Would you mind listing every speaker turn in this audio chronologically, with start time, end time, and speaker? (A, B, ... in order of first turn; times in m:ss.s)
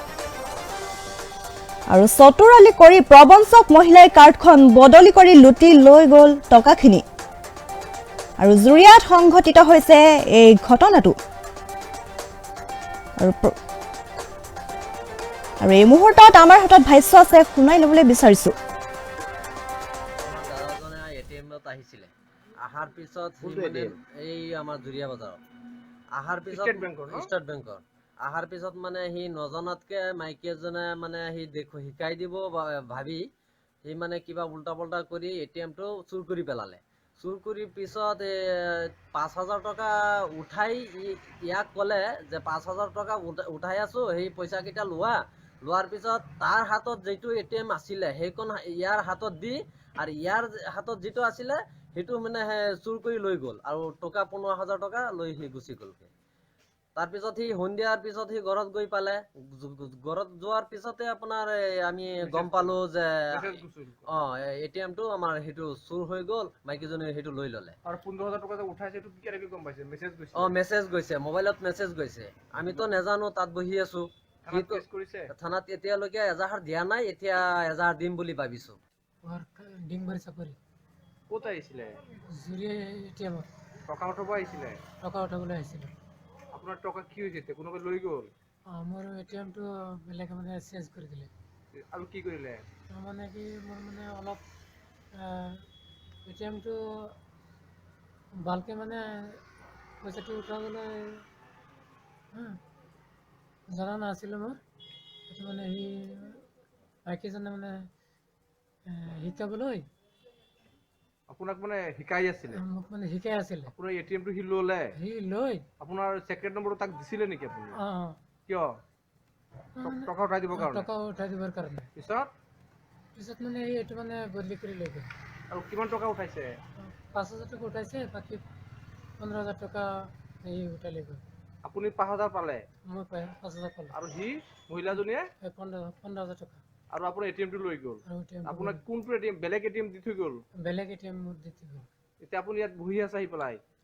0:01.9-0:07.0 A
0:08.4-0:11.2 A
0:13.2-0:13.6 A
0:15.6-0:18.5 A
0:20.2-0:25.4 B
0:23.4-0:24.0 C
0:26.2-0:33.2 B
0:26.5-0:27.3 C
0:33.8-0:56.1 B
0:57.0-1:07.8 B
1:02.2-1:02.8 C
1:03.3-1:04.1 C
1:07.8-1:10.5 C
1:10.4-1:18.8 B
1:14.5-1:15.3 C
1:19.2-1:20.6 D
1:21.3-1:22.0 C
1:22.3-1:23.5 D
1:23.9-1:24.8 C
1:25.0-1:26.0 D
1:26.5-1:28.3 C
1:28.7-1:31.3 D
1:31.8-1:32.6 C
1:32.9-1:34.4 D
1:35.1-1:35.7 D
1:36.3-1:37.2 D
1:38.4-1:39.4 D
1:40.0-1:41.2 D
1:42.3-1:42.6 D
1:43.7-1:44.6 D
1:45.3-1:46.4 D
1:47.0-1:47.9 D
1:48.9-1:49.9 D
1:51.3-1:52.6 C
1:52.5-1:53.7 D
1:53.7-1:54.9 C
1:55.0-1:55.7 D
1:55.8-1:57.8 C
1:57.7-1:58.2 D
1:58.5-1:58.8 C
1:59.8-2:01.9 D
1:59.8-2:00.9 C
2:02.0-2:02.3 C
2:03.2-2:05.1 D
2:05.5-2:06.6 C
2:06.8-2:08.4 D
2:09.2-2:11.2 D
2:11.6-2:12.6 C
2:12.9-2:14.0 D
2:13.9-2:15.3 C
2:14.9-2:16.6 D
2:16.9-2:20.4 C
2:18.0-2:18.8 D
2:20.6-2:21.9 D
2:22.2-2:23.6 C